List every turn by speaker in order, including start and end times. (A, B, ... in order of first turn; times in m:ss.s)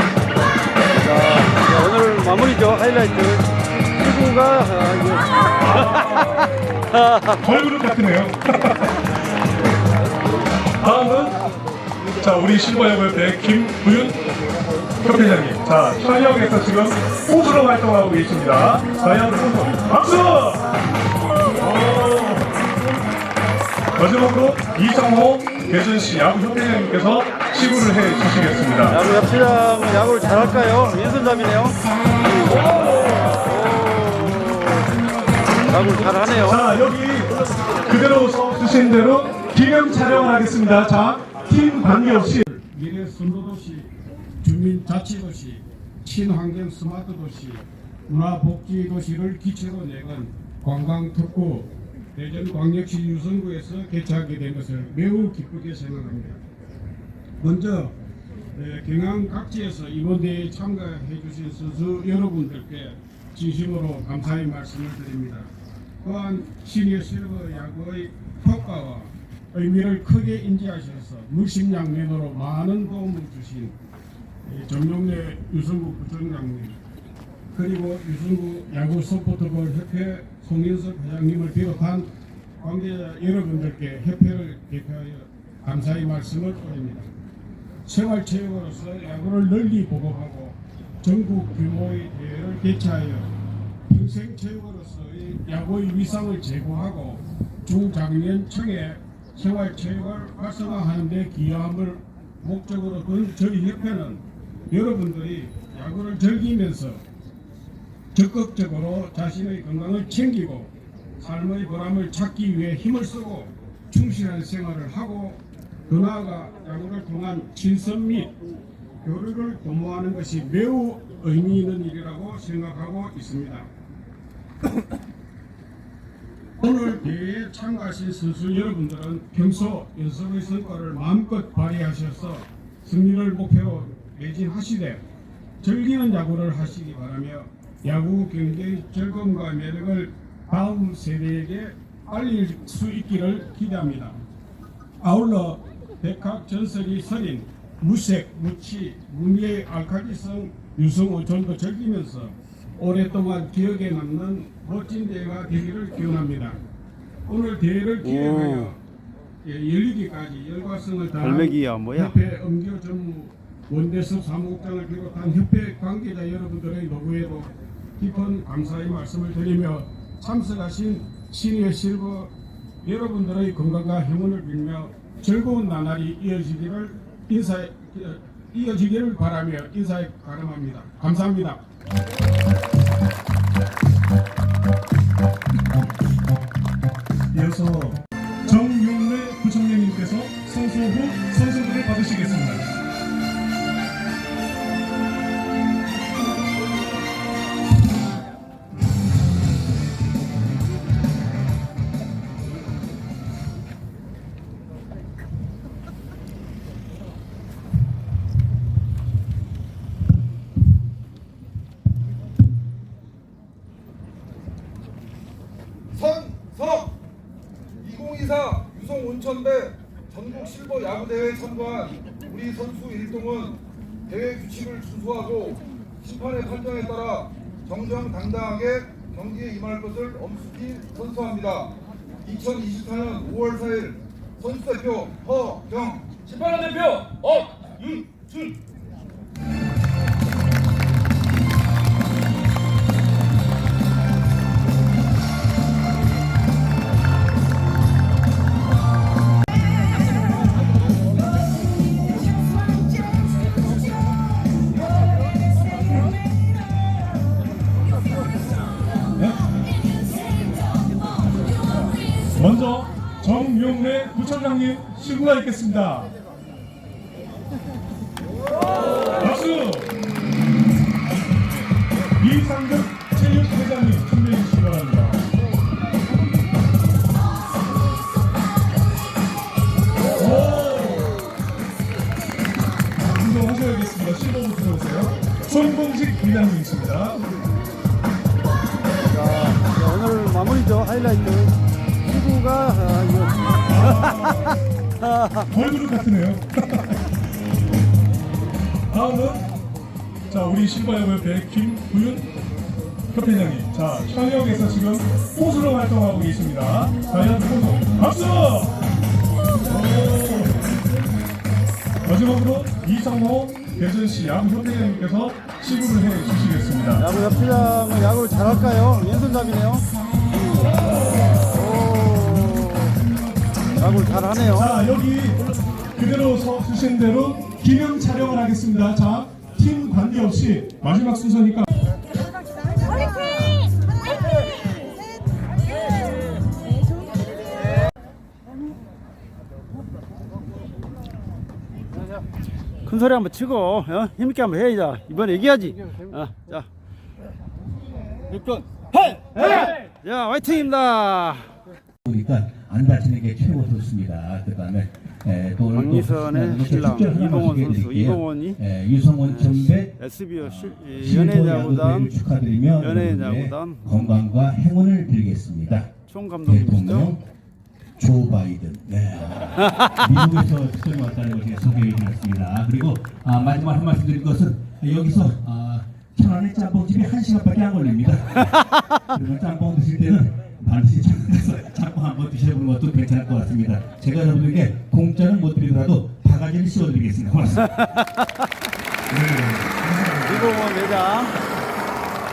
0:01.0-0:07.4 A
0:07.4-0:09.0 B
0:10.8-0:11.4 B
0:12.2-0:14.2 B
0:15.0-0:20.7 B
0:21.5-0:22.6 B
0:23.9-0:29.0 B
0:28.9-0:36.6 A
0:36.4-0:42.4 B
0:42.4-0:56.4 C
0:57.4-0:58.0 C
0:58.5-1:13.8 C
1:14.4-1:16.8 C
1:17.5-1:27.1 C
1:27.8-1:33.3 C
1:33.9-1:47.0 C
1:48.1-1:58.4 C
1:59.0-2:03.7 C
2:06.6-2:15.0 C
2:15.6-2:24.2 C
2:25.0-2:36.6 C
2:37.3-2:38.8 C
2:38.0-2:38.7 A
2:39.4-3:01.6 C
2:41.2-2:42.2 A
3:07.3-3:12.7 B
3:35.9-3:37.0 D
3:37.8-3:58.5 D
4:22.3-4:26.1 B
4:29.1-4:29.9 B
4:32.2-4:35.3 B
4:40.2-4:41.2 B
4:43.0-4:47.2 B
4:49.1-4:55.5 A
4:53.7-4:54.5 B
4:55.5-4:57.0 B
4:58.9-4:59.5 B
5:00.3-5:02.3 B
5:03.1-5:08.8 B
5:09.6-5:10.7 B
5:12.0-5:17.0 B
5:17.0-5:19.9 A
5:21.5-5:22.9 A
5:23.8-5:24.7 A
5:23.8-5:25.4 B
5:25.9-5:31.7 B
5:42.8-5:46.7 A
5:48.3-5:51.5 A
5:52.0-6:05.9 E
5:55.7-5:58.6 A
5:59.2-6:02.1 A
6:02.8-6:03.9 A
6:06.1-6:07.1 A
6:06.4-6:07.2 E
6:08.0-6:27.8 E
6:27.8-6:28.2 A
6:29.1-6:30.6 B
6:30.2-6:31.4 A